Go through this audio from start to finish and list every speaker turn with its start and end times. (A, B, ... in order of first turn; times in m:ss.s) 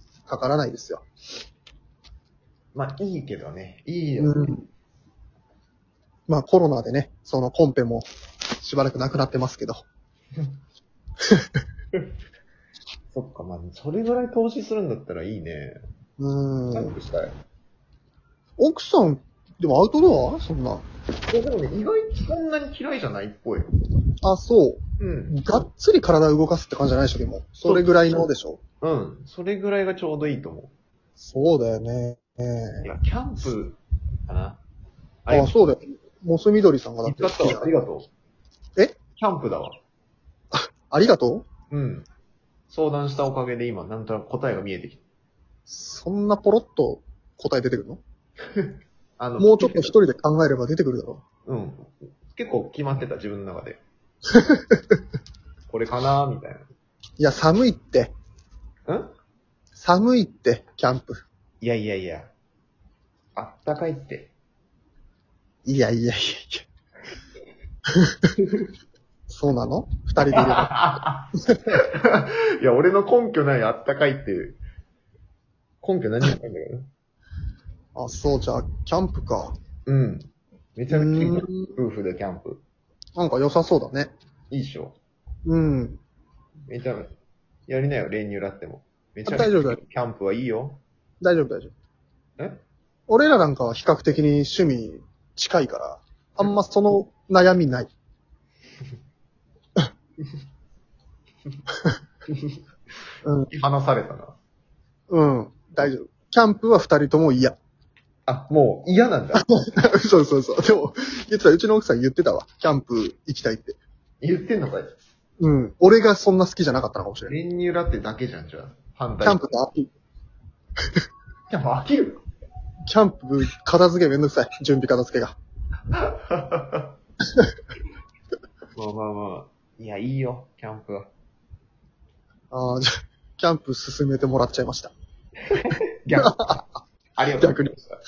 0:00.3-0:01.0 A
0:02.7-0:04.5 B
0:04.2-0:04.6 A
0:06.3-0:08.1 A
0:08.6-0:09.8 A
0:11.3-0:11.6 A
0:13.1-0:15.8 B
0:16.2-0:17.0 A
0:16.7-0:17.3 B
0:18.6-0:20.8 A
0:21.3-0:23.7 B
0:24.2-0:28.6 A
0:25.0-0:25.3 B
0:27.6-0:27.9 B
0:28.8-0:30.7 B
0:31.2-0:32.8 A
0:32.8-0:34.6 B
0:35.2-0:35.5 B
0:35.3-0:37.6 A
0:37.0-0:38.1 B
0:39.2-0:39.8 B
0:40.5-0:41.5 A
0:41.7-0:42.0 B
0:42.7-0:45.0 B
0:45.7-0:48.0 A
0:48.6-0:49.9 B
0:49.4-0:51.2 A
0:51.4-0:53.8 B
0:54.3-0:55.0 A
0:55.7-0:56.7 B
0:57.2-0:58.1 A
0:59.8-1:01.2 A
1:01.6-1:02.3 B
1:03.4-1:04.3 B
1:05.6-1:06.6 A
1:08.1-1:08.3 A
1:09.3-1:10.7 A
1:10.3-1:14.6 B
1:11.3-1:11.8 A
1:15.8-1:16.9 B
1:18.0-1:19.5 A
1:19.8-1:22.6 B
1:20.9-1:21.7 A
1:23.2-1:24.1 A
1:24.5-1:25.0 B
1:25.4-1:26.0 A
1:26.7-1:27.1 B
1:27.7-1:30.8 B
1:29.2-1:29.8 A
1:31.2-1:31.7 A
1:33.1-1:37.9 A
1:42.3-1:42.6 B
1:43.2-1:43.5 A
1:43.5-1:44.4 B
1:45.1-1:47.6 A
1:48.2-1:49.4 B
1:49.3-1:53.8 A
1:54.2-1:54.9 B
1:55.4-1:57.4 A
1:57.3-1:59.4 B
1:59.2-1:59.9 A
2:01.5-2:02.2 B
2:02.9-2:05.4 A
2:05.9-2:06.9 B
2:08.7-2:11.1 B
2:12.5-2:14.9 A
2:15.5-2:18.0 B
2:16.1-2:16.6 A
2:17.4-2:17.7 A